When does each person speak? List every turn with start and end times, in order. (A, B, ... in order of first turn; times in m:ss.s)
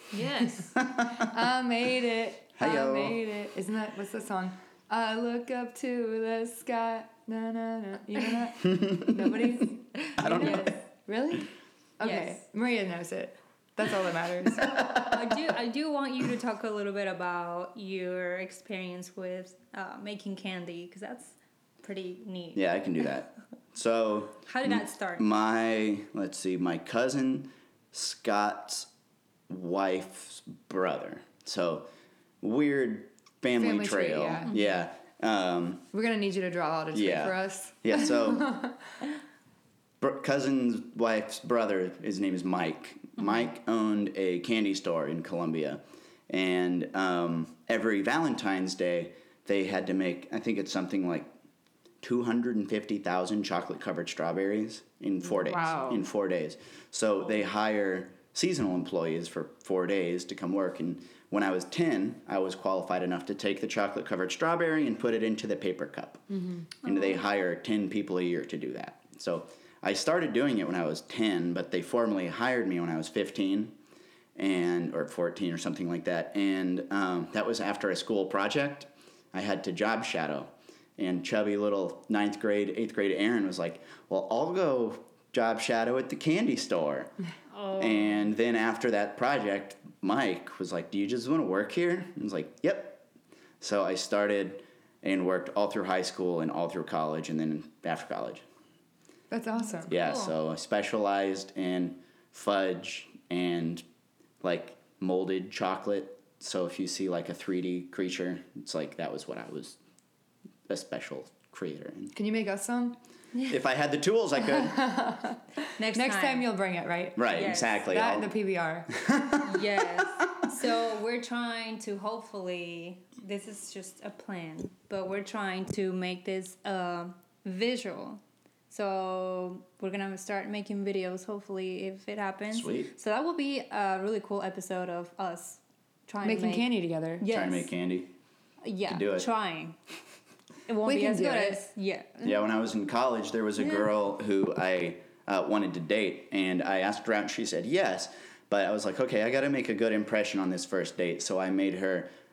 0:00.1-0:00.7 A
0:00.7-0:01.3 B
0:01.1-0:14.7 C
0:02.6-0:03.2 B
0:08.6-0:09.4 B
0:10.0-0:10.7 A
0:10.2-0:10.8 B
0:12.0-0:12.4 A
0:14.6-0:15.2 B
0:14.9-0:22.6 A
0:22.5-0:28.9 B
0:24.4-0:25.2 A
0:29.5-0:31.9 B
0:32.4-0:35.8 B
0:33.6-0:34.5 C
0:34.5-0:34.7 A
0:35.9-0:38.8 C
0:36.9-0:38.6 B
0:40.0-0:51.3 B
0:52.0-1:06.2 B
0:55.5-0:56.0 C
1:06.8-1:13.7 B
1:06.8-1:07.2 A
1:14.4-1:27.1 B
1:27.5-1:28.3 A
1:27.7-1:33.0 B
1:33.6-1:38.4 B
1:39.3-1:39.9 C
1:39.7-1:40.3 A
1:39.9-1:43.8 B
1:44.4-1:49.8 B
1:50.7-1:52.1 B
1:52.1-1:53.0 C
1:53.5-1:54.8 B
1:54.4-1:58.9 C
1:55.8-1:56.5 A
1:57.2-1:58.3 B
1:57.3-1:57.8 A
1:58.9-2:00.5 B
1:59.4-2:17.7 A
2:12.5-2:12.9 B
2:16.2-2:17.2 C
2:17.3-2:18.1 B
2:18.6-2:19.8 A
2:18.9-2:19.3 B
2:20.7-2:22.3 A
2:20.8-2:21.6 C
2:22.2-2:32.1 B
2:23.6-2:23.9 A